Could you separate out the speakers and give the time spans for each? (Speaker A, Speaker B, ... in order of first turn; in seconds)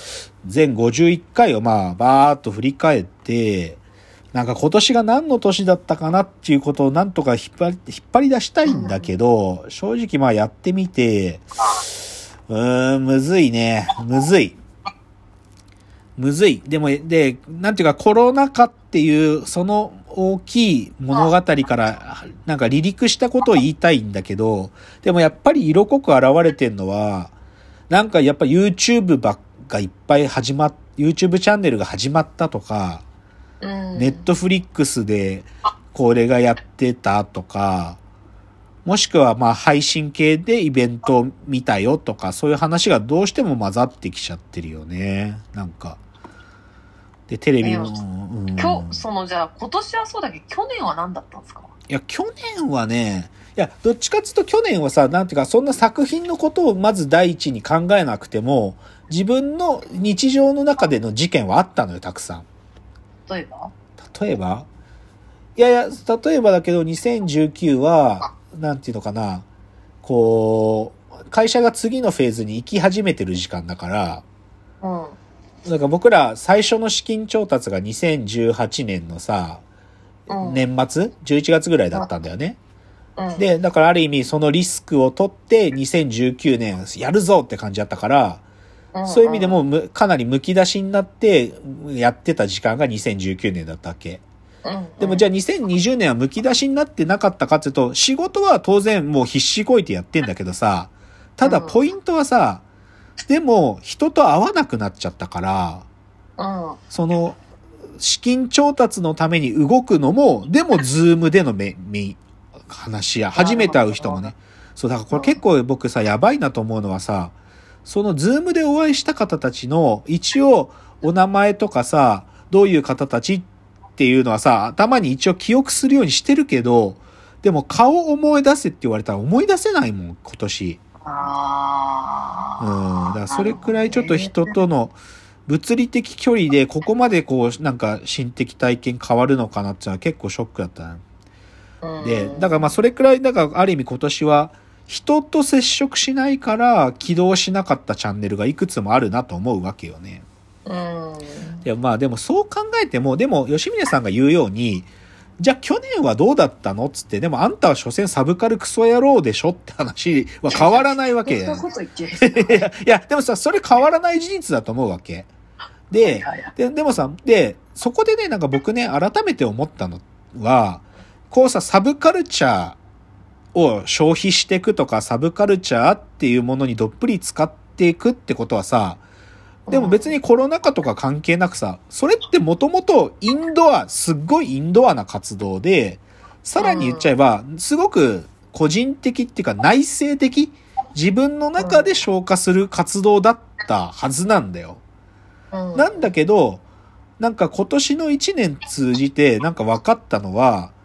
Speaker A: 0.4-3.8, 4.3-11.9, 12.5-14.6, 16.2-27.3, 27.9-33.0, 34.0-38.0, 38.8-46.0, 47.3-49.0, 51.9-62.5, 64.0-64.7, 65.5-69.5, 70.0-74.2, 75.6-79.6, 80.3-82.6, 83.3-88.4, 89.0-94.2, 95.0-102.6, 103.2-105.8, 106.9-107.4, 108.0-117.3, 117.8-130.8, 132.6-141.0, 142.0-150.2, 151.6-154.9, 155.4-161.6, 162.2-165.3, 165.9-172.8, 173.5-179.0, 179.7-194.8, 195.7-196.6, 197.2-200.7
Speaker B: 8.7-9.0, 33.6-34.2, 47.6-48.0, 48.5-51.7, 63.3-63.7, 74.8-75.2, 80.3-80.6, 83.2-83.4, 88.9-89.6, 94.6-95.2, 101.4-101.8, 106.4-106.8, 113.3-114.3, 115.1-115.4, 131.0-134.5, 141.8-142.7, 150.7-151.6, 160.5-162.6, 166.0-166.5, 179.7-180.1, 186.6-187.1, 191.6-191.9, 195.5-196.1